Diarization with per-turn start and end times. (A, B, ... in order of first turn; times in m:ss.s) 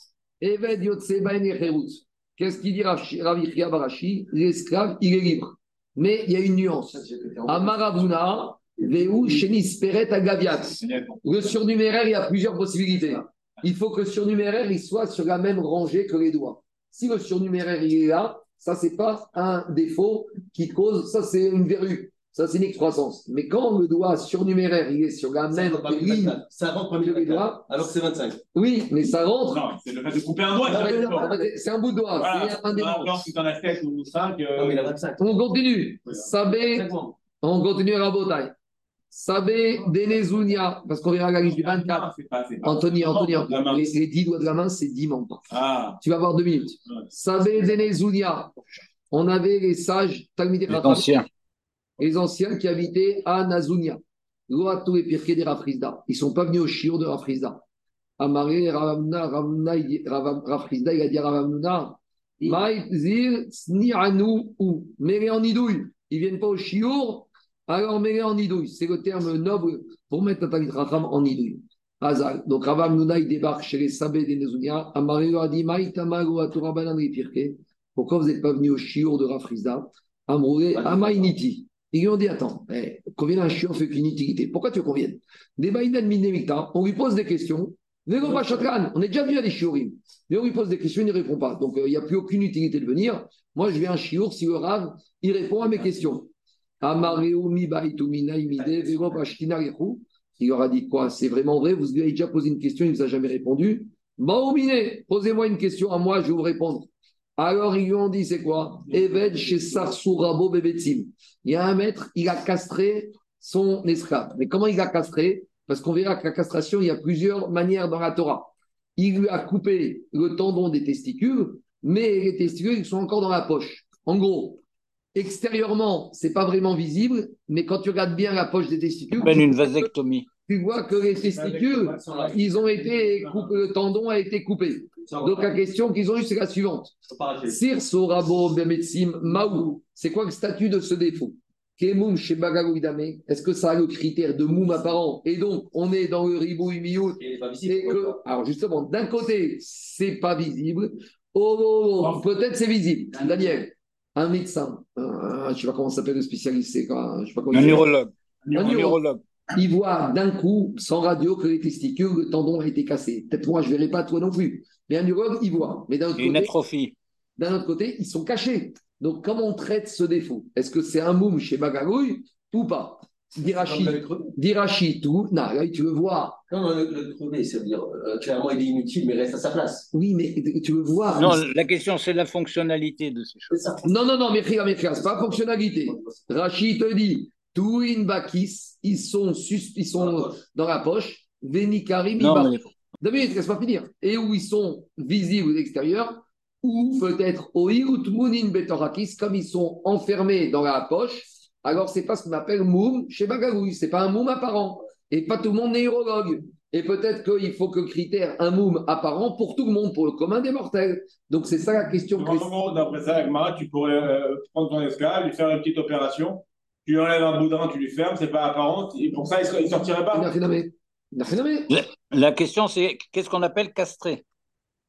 0:00.4-0:26.4 A
0:07.0-0:07.9 B
0:25.5-0:28.4 B
0:27.0-0:27.8 A
0:28.5-0:29.6 A
0:29.5-0:31.3 C
0:30.6-0:31.5 B
0:30.7-0:33.2 A
0:32.2-0:34.8 C
0:34.6-0:35.4 B
0:35.2-0:36.9 A
0:36.5-0:37.2 B
0:37.4-0:38.5 A
0:39.1-0:42.1 A
0:41.4-0:43.9 C
0:42.6-0:45.4 A
0:45.5-0:46.0 C
0:46.0-0:48.6 A
0:49.1-0:51.1 A
0:50.7-0:51.3 D
0:52.0-0:57.6 A
0:58.2-1:36.3 A
1:20.7-1:21.3 B
1:36.8-2:04.6 A
2:05.2-2:09.9 A
2:09.2-2:10.3 D
2:10.5-2:16.9 A
2:11.5-2:12.5 B
2:11.6-2:12.3 C
2:15.0-2:15.6 B
2:17.1-2:17.6 B
2:17.5-2:37.9 A
2:27.2-2:28.2 B
2:37.5-2:39.2 D
2:38.5-2:39.0 A
2:39.6-2:46.6 A
2:46.2-2:46.9 D
2:47.4-2:56.4 A
2:53.4-2:54.3 B
2:56.5-2:59.9 B
2:59.9-3:01.4 A
3:01.2-3:03.6 D
3:03.5-3:03.8 B
3:03.8-3:32.5 A
3:05.8-3:06.2 B
3:10.0-3:10.4 B
3:12.2-3:12.6 D
3:32.2-3:40.3 C
3:40.1-3:41.8 A
3:41.7-3:44.2 D